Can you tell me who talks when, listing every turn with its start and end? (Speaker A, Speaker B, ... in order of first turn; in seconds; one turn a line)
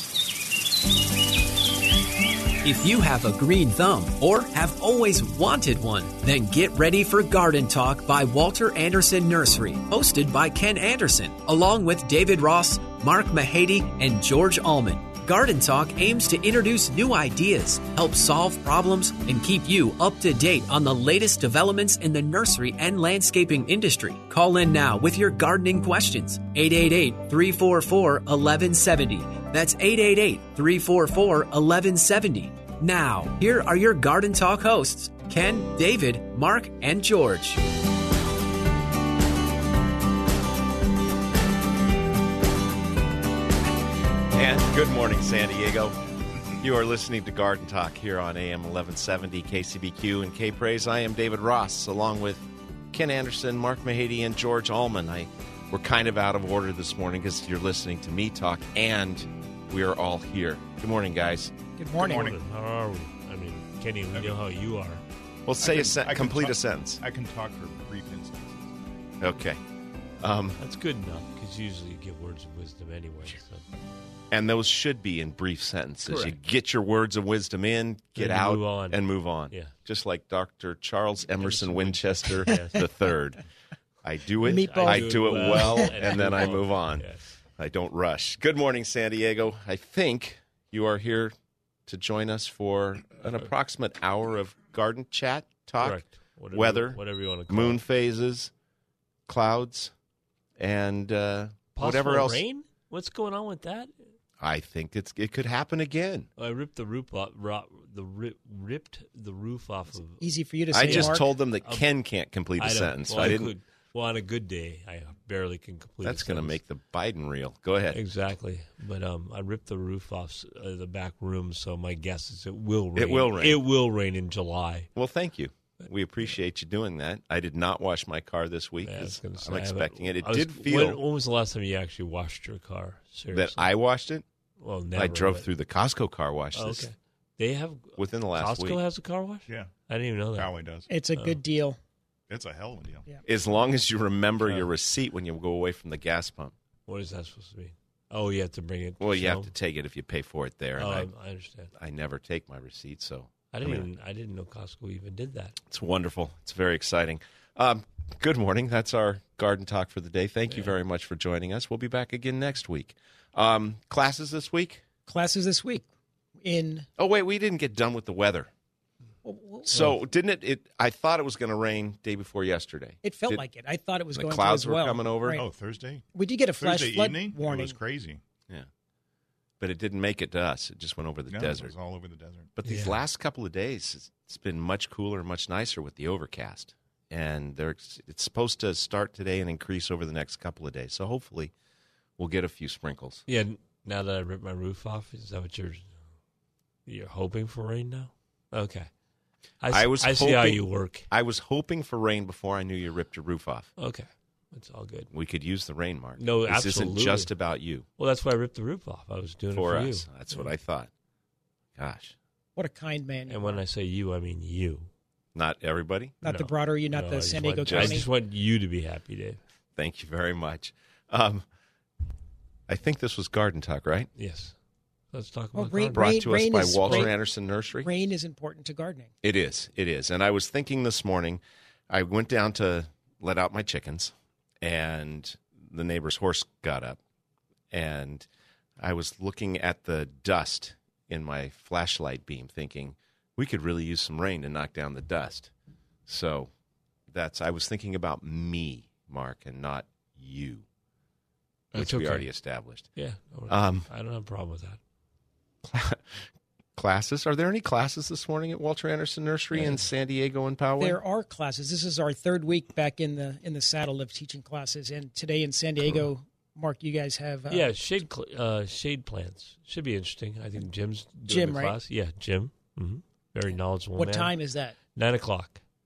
Speaker A: 2.6-37.6
Speaker B: 44.3-46.0
Speaker B: 46.6-61.5
Speaker C: 61.8-62.4
Speaker D: 62.0-62.4
Speaker E: 62.1-65.0
Speaker B: 65.5-67.0
Speaker D: 65.6-68.8
Speaker B: 69.2-69.6
Speaker B: 70.2-70.6
Speaker E: 70.6-73.6
Speaker B: 74.3-83.4
Speaker E: 76.1-76.4
Speaker E: 78.2-79.8
Speaker E: 81.4-82.9
Speaker B: 84.0-91.3
Speaker C: 84.4-85.9
Speaker E: 84.5-87.4
Speaker B: 91.9-98.5
Speaker E: 95.8-97.8
Speaker B: 99.3-99.9
Speaker B: 100.6-102.4
Speaker E: 101.8-104.0
Speaker B: 104.4-106.3
Speaker E: 106.4-111.9
Speaker C: 110.2-111.3
Speaker B: 110.7-113.5
Speaker E: 112.6-116.6
Speaker B: 116.0-118.0
Speaker E: 117.9-124.9
Speaker B: 123.0-123.6
Speaker B: 125.0-131.0
Speaker E: 128.8-133.7
Speaker B: 133.3-134.2
Speaker E: 134.6-135.5
Speaker B: 134.9-136.9
Speaker E: 136.6-140.6
Speaker B: 138.0-138.8
Speaker D: 139.5-139.7
Speaker D: 140.3-140.9
Speaker C: 140.9-141.8
Speaker D: 142.3-143.1
Speaker B: 143.2-146.5
Speaker E: 146.9-149.5
Speaker B: 149.0-151.1
Speaker E: 150.8-151.7
Speaker B: 151.7-153.9
Speaker E: 153.5-155.6
Speaker B: 155.7-164.8
Speaker C: 165.1-165.9
Speaker C: 166.4-166.9
Speaker B: 167.0-168.5
Speaker C: 169.2-169.8
Speaker B: 169.7-173.4
Speaker C: 173.0-175.5
Speaker B: 174.1-175.4
Speaker D: 175.3-176.1
Speaker C: 176.1-177.8
Speaker D: 176.6-178.2
Speaker B: 179.6-181.8
Speaker D: 181.3-182.5
Speaker B: 182.6-191.5
Speaker E: 182.7-183.0
Speaker B: 192.2-193.2
Speaker E: 193.3-196.0
Speaker E: 196.9-198.9
Speaker E: 199.6-201.1
Speaker B: 199.7-203.7
Speaker E: 203.8-205.1
Speaker B: 205.1-207.9
Speaker E: 206.2-207.3
Speaker E: 208.0-210.5
Speaker B: 209.5-210.9
Speaker B: 211.8-212.2
Speaker C: 212.6-213.6
Speaker E: 213.3-214.9
Speaker B: 215.3-216.2
Speaker C: 216.2-218.1
Speaker E: 216.2-219.4
Speaker B: 217.7-218.0
Speaker B: 219.8-221.4
Speaker B: 222.7-224.1
Speaker E: 224.2-224.6
Speaker E: 225.1-227.1
Speaker C: 225.6-227.2
Speaker B: 225.9-227.9
Speaker C: 227.8-229.1
Speaker B: 229.2-237.0
Speaker B: 237.7-238.3
Speaker B: 238.8-245.5
Speaker B: 246.1-246.5
Speaker B: 247.1-250.7
Speaker B: 251.7-253.0
Speaker E: 251.8-252.3
Speaker E: 252.9-254.8
Speaker B: 253.5-253.9
Speaker B: 255.6-261.0
Speaker E: 259.5-259.8
Speaker C: 260.8-267.7
Speaker E: 267.5-275.6
Speaker C: 271.2-271.8
Speaker C: 273.5-274.8